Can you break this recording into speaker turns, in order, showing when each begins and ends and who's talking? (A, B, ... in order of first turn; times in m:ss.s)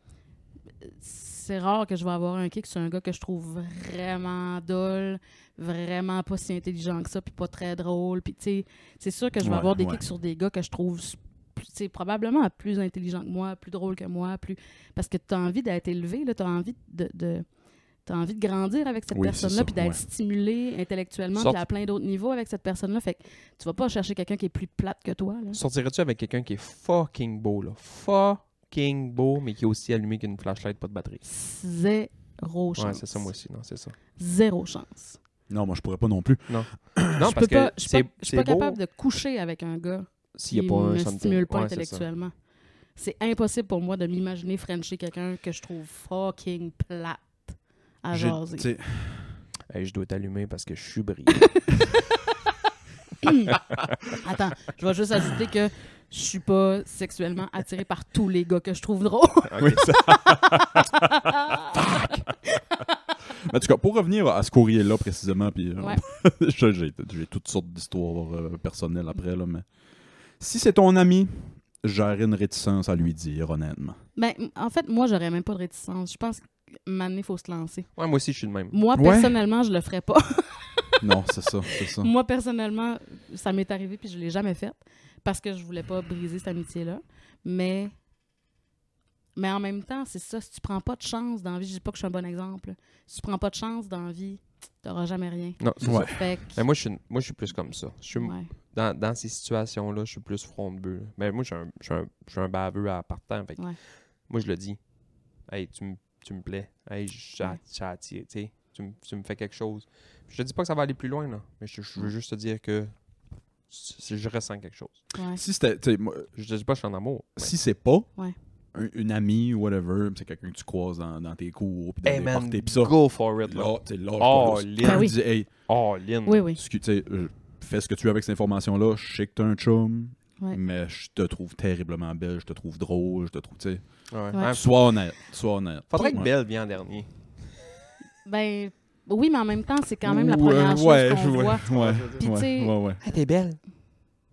0:00.8-0:17.5 A
0:09.4-0:10.0 B
0:18.0-0:25.6 A
0:19.1-0:20.0 B
0:21.3-0:21.6 C
0:25.5-0:31.2 C
0:31.2-0:33.3 A
0:32.7-0:34.0 C
0:34.2-0:35.2 A
0:35.5-0:37.2 B
0:36.5-0:38.8 C
0:37.2-0:42.4 A
0:40.4-0:42.0 C
0:42.9-0:48.7 A
0:48.1-0:49.4 B
0:49.7-0:51.7 C
0:53.2-0:53.5 A
0:54.1-0:59.8 A
0:59.4-0:59.9 C
0:59.6-1:02.2 B
1:00.8-1:01.6 A
1:03.4-1:09.7 B
1:10.4-1:14.0 B
1:14.2-1:17.9 A
1:18.0-1:18.8 C
1:18.7-1:21.0 A
1:18.9-1:19.3 B
1:21.0-1:22.1 B
1:21.8-1:27.9 A
1:29.3-1:36.6 A
1:35.6-1:44.8 C
1:35.8-1:36.2 B
1:38.1-1:38.5 A
1:45.4-1:52.9 C
1:53.7-1:55.0 C
1:55.1-1:55.4 A
1:55.3-1:56.3 B
1:56.4-1:57.5 C
1:57.4-1:58.1 B
1:58.7-2:05.5 B
2:02.0-2:06.4 C
2:04.8-2:05.6 A
2:06.2-2:06.6 A
2:06.6-2:16.3 B
2:14.1-2:14.7 C
2:15.9-2:17.2 C
2:18.2-2:22.7 A
2:20.0-2:23.0 B
2:21.7-2:22.2 C
2:23.0-2:23.6 C